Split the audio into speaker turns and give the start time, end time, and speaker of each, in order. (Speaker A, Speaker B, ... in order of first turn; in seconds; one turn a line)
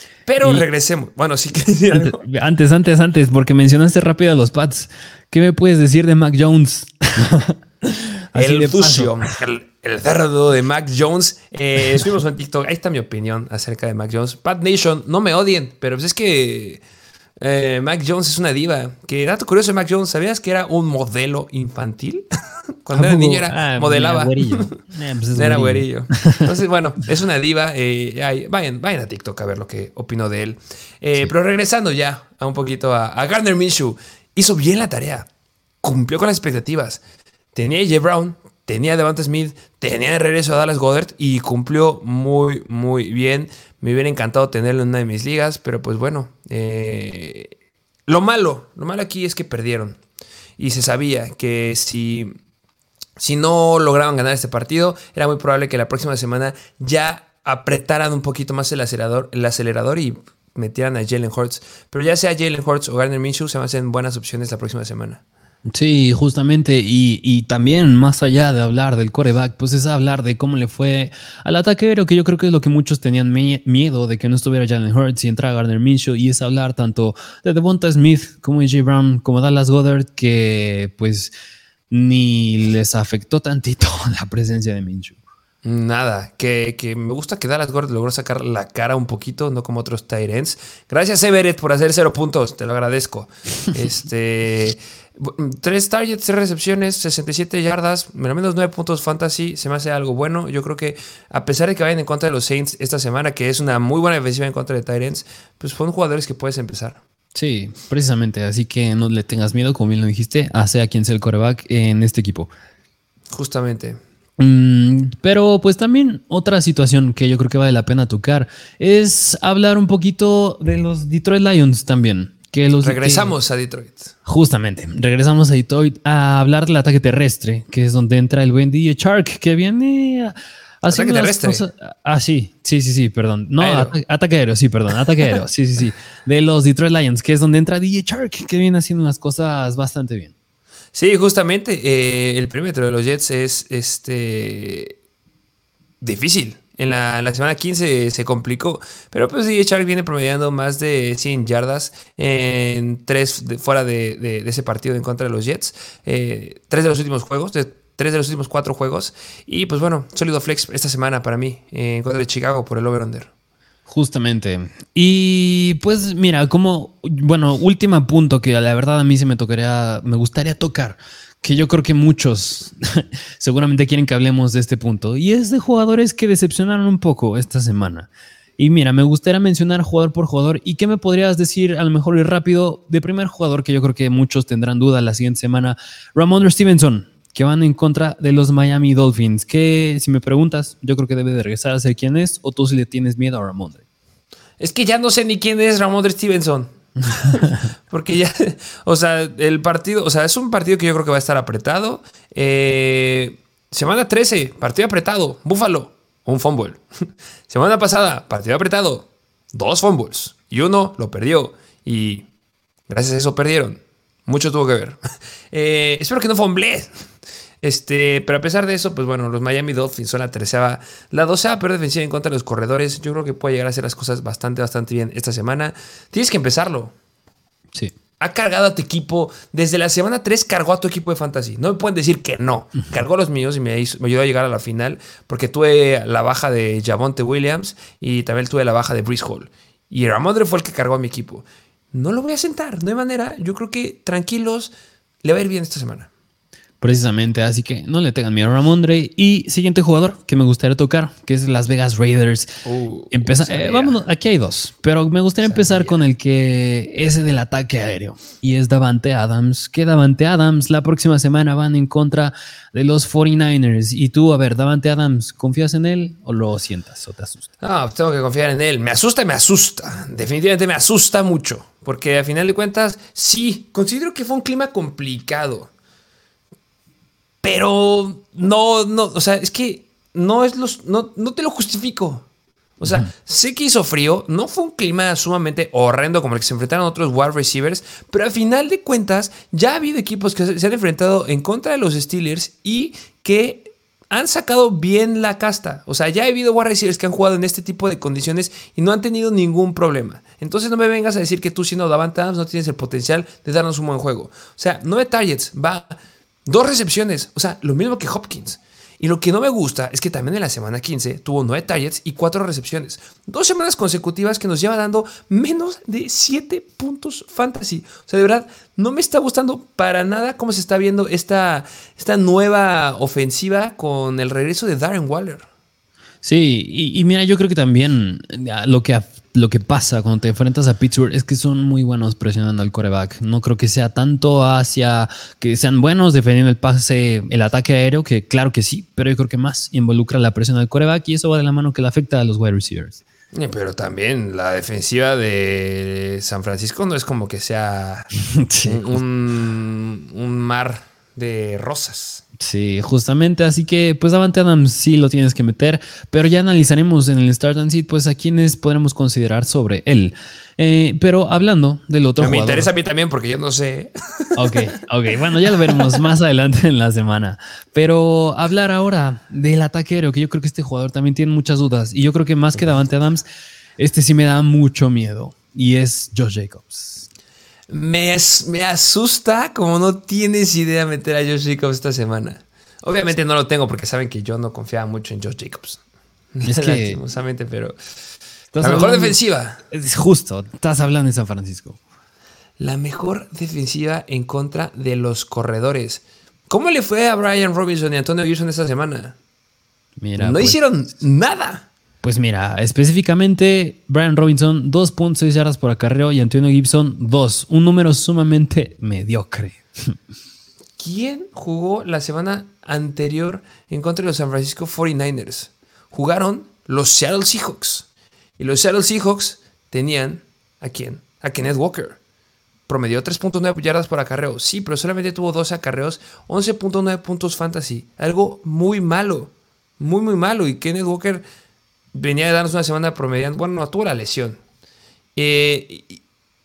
Speaker A: 0.3-2.2
Speaker B: 1.9-9.2
Speaker A: 8.3-16.8
Speaker A: 17.4-22.2
Speaker A: 22.9-24.8
Speaker B: 22.9-26.4
Speaker A: 25.3-35.3
Speaker A: 35.8-37.0
Speaker A: 37.5-47.5
Speaker A: 48.1-50.0
Speaker A: 50.6-52.4
Speaker A: 53.2-65.2
Speaker B: 65.7-81.3
Speaker B: 81.9-85.2
Speaker A: 85.6-107.0
Speaker B: 107.3-112.5
Speaker A: 113.3-114.0
Speaker B: 114.4-123.3
Speaker A: 122.8-124.1
Speaker B: 124.3-140.3
Speaker A: 130.9-131.6
Speaker A: 133.6-133.9
Speaker A: 140.9-144.9
Speaker A: 146.0-163.3
Speaker B: 163.9-193.8
Speaker A: 194.6-206.8
Speaker B: 197.2-197.7
Speaker A: 207.5-212.3
Speaker A: 212.9-215.0
Speaker A: 215.5-216.9
Speaker A: 217.6-226.9
Speaker A: 228.2-244.7
Speaker A: 245.2-246.1
Speaker B: 246.8-252.5
Speaker A: 252.7-254.0
Speaker B: 253.1-267.4
Speaker A: 255.4-255.9
Speaker A: 267.6-275.7
Speaker A: 277.4-282.3
Speaker A: 282.8-305.9
Speaker A: 306.5-325.5
Speaker B: 326.2-343.0
Speaker A: 343.3-348.1
Speaker B: 348.3-349.0
Speaker A: 348.6-352.2
Speaker B: 352.4-362.7
Speaker A: 362.2-364.6
Speaker B: 364.4-373.2
Speaker A: 365.4-366.0
Speaker B: 373.8-377.1
Speaker A: 377.7-385.8
Speaker A: 386.3-387.8
Speaker B: 386.4-387.0
Speaker B: 388.5-389.2
Speaker A: 388.6-389.6
Speaker B: 389.7-391.8
Speaker A: 392.6-399.2
Speaker B: 400.0-400.6
Speaker A: 400.2-401.7
Speaker B: 402.0-410.0
Speaker A: 410.8-417.9
Speaker A: 418.4-422.0
Speaker A: 422.7-431.2
Speaker A: 431.9-434.4
Speaker A: 435.2-436.0